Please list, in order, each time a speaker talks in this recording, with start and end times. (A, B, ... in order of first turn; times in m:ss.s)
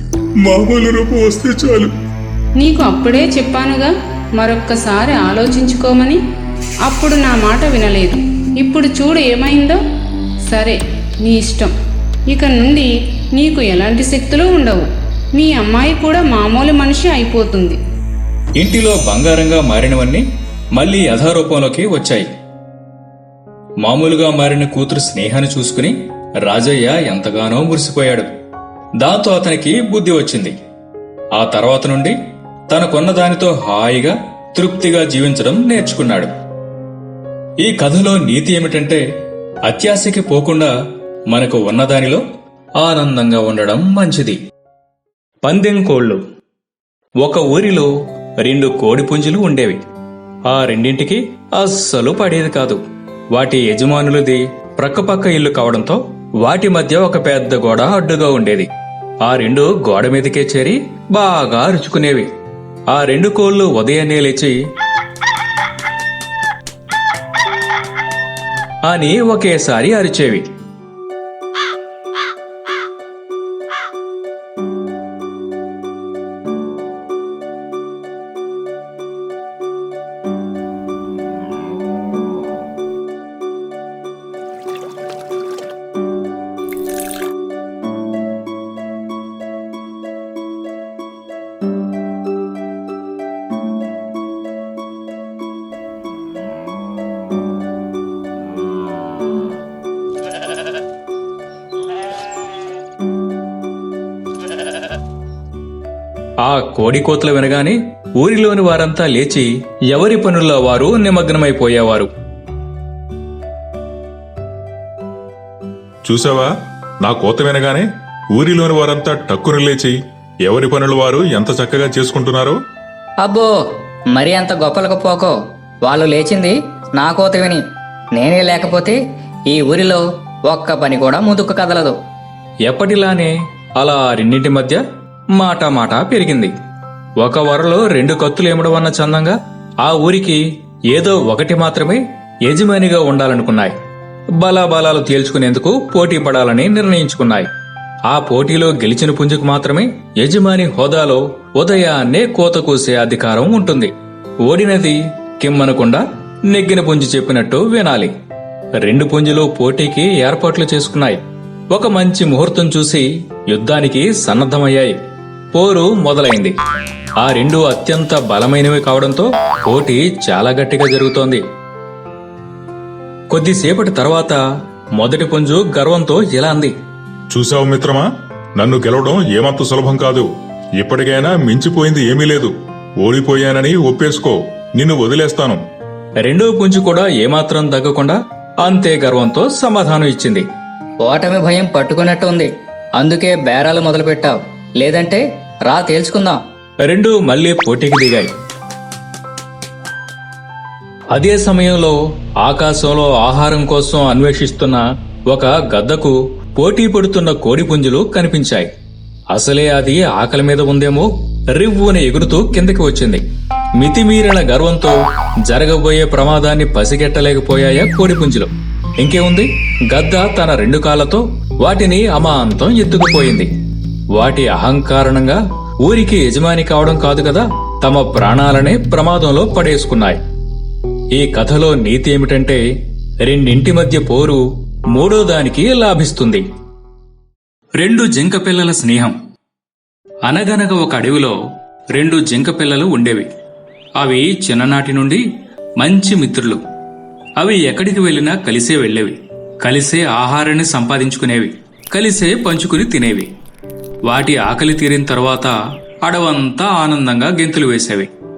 0:00.4-0:01.9 A
0:02.6-0:06.2 B
0:06.8-0:09.8 B
0:10.5-0:11.7 B
0:12.3-0:17.8 B
0:18.6-0:22.3 C
0:23.8-0:28.3 C
0:29.0-0:30.5 C
0:31.3-0:32.2 C
0:32.7-0:36.3 C
0:37.6-0:39.0 C
0:39.6-0:40.7 C
0:41.3-0:42.2 C
0:42.8-0:44.4 C
0:45.4-0:46.2 C
0:47.2-0:49.8 C
0:50.5-0:52.8 C
0:53.3-0:58.7 C
0:59.2-1:02.3 C
1:02.9-1:04.6 C
1:08.8-1:10.5 C
1:46.4-1:52.1 C
1:56.0-1:56.5 A
1:57.0-2:02.6 A
2:03.2-2:03.6 D
2:04.1-2:05.3 D
2:05.8-2:07.6 D
2:08.2-2:09.0 D
2:09.5-2:11.9 D
2:12.7-2:14.8 C
2:15.3-2:16.5 C
2:17.2-2:23.7 C
2:24.4-2:27.5 C
2:28.0-2:33.9 C
2:34.4-2:38.1 C
2:38.8-2:41.2 C
2:41.7-2:45.0 C
2:45.5-2:46.5 C
2:47.2-2:51.4 C
2:53.3-2:54.4 C
2:55.0-2:56.7 C
2:57.3-2:58.0 A
2:58.6-3:05.6 A
3:06.2-3:10.4 C
3:11.0-3:12.5 D
3:13.0-3:16.4 D
3:13.1-3:13.7 C
3:14.9-3:15.2 C
3:16.8-3:18.3 C
3:21.1-3:28.7 C
3:29.3-3:33.2 C
3:33.8-3:43.5 C
3:44.1-3:50.2 C
3:51.1-3:52.6 C
3:53.2-3:56.4 C
3:57.8-3:59.2 C
4:00.2-4:01.4 C
4:01.9-4:03.3 C
4:04.0-4:05.2 C
4:05.8-4:06.6 C
4:07.4-4:13.3 C
4:14.0-4:18.1 C